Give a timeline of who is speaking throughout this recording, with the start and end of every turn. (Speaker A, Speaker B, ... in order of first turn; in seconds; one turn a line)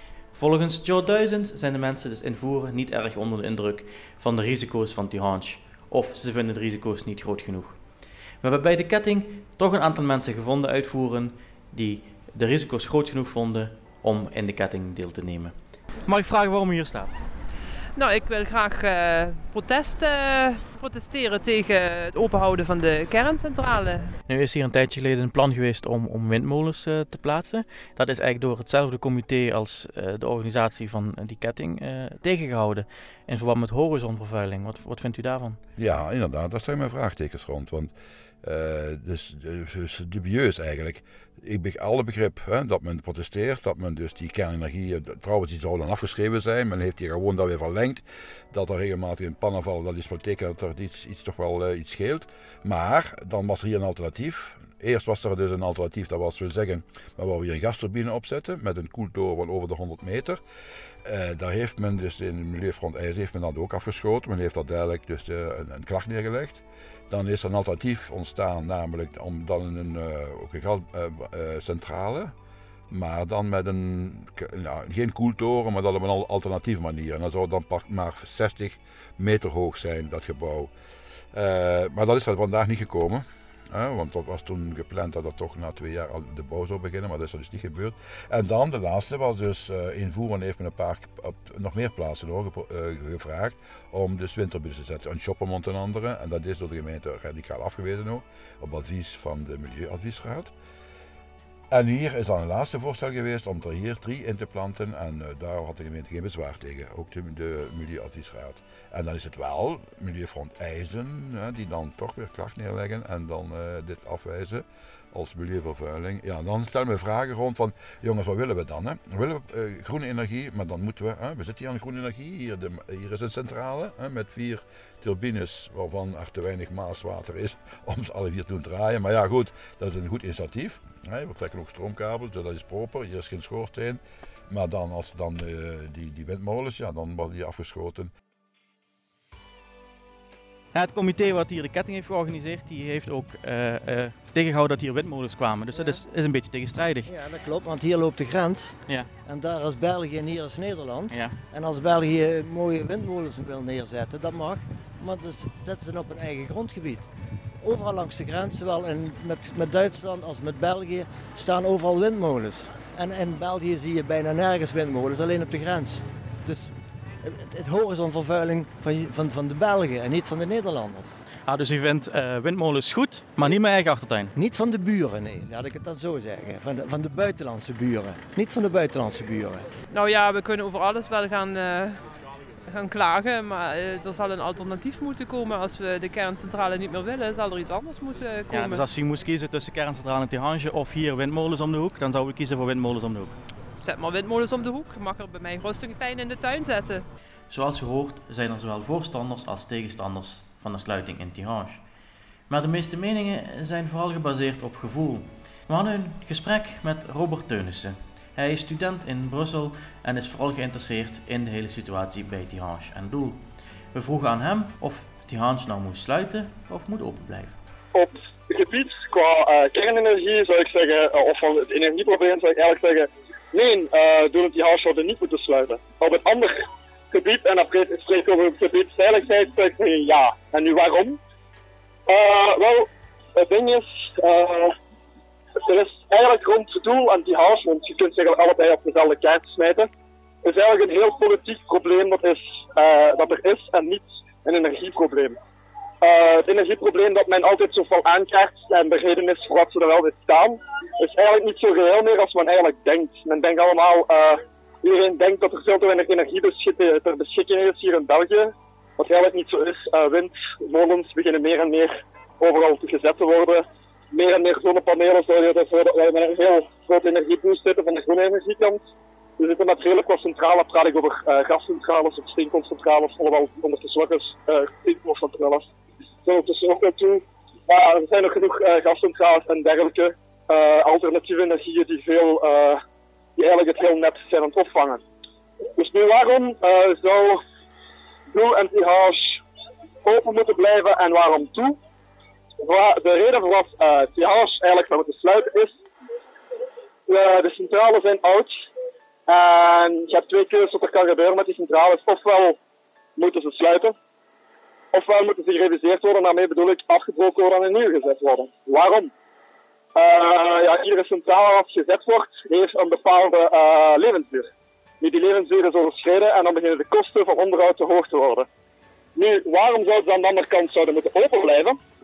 Speaker A: 0.3-7.8
Speaker A: 8.4-15.5
Speaker A: 16.1-17.1
Speaker B: 17.9-24.1
Speaker A: 24.3-35.6
Speaker C: 35.8-60.4
Speaker C: 61.0-72.3
Speaker C: 72.9-80.7
Speaker C: 81.3-100.5
Speaker C: 101.7-138.1
Speaker A: 140.7-147.1
Speaker D: 147.1-157.1
Speaker A: 151.1-151.3
Speaker D: 157.6-166.7
Speaker D: 167.2-171.1
Speaker A: 171.5-174.3
Speaker D: 174.3-179.6
Speaker B: 179.9-182.0
Speaker B: 182.7-188.9
Speaker A: 188.5-193.4
Speaker B: 193.8-197.0
Speaker A: 197.5-201.8
Speaker A: 202.5-213.4
Speaker A: 213.9-217.6
Speaker E: 217.9-231.2
Speaker E: 232.1-234.7
Speaker E: 235.6-239.9
Speaker E: 240.4-245.4
Speaker E: 246.0-268.8
Speaker E: 269.4-275.7
Speaker E: 276.2-282.8
Speaker E: 283.4-285.0
Speaker E: 285.8-287.4
Speaker E: 288.3-289.4
Speaker E: 290.0-291.8
Speaker E: 292.6-295.8
Speaker E: 297.1-298.6
Speaker E: 299.3-302.6
Speaker E: 303.2-303.9
Speaker E: 304.9-309.1
Speaker E: 309.9-314.5
Speaker E: 315.0-318.5
Speaker E: 319.1-321.8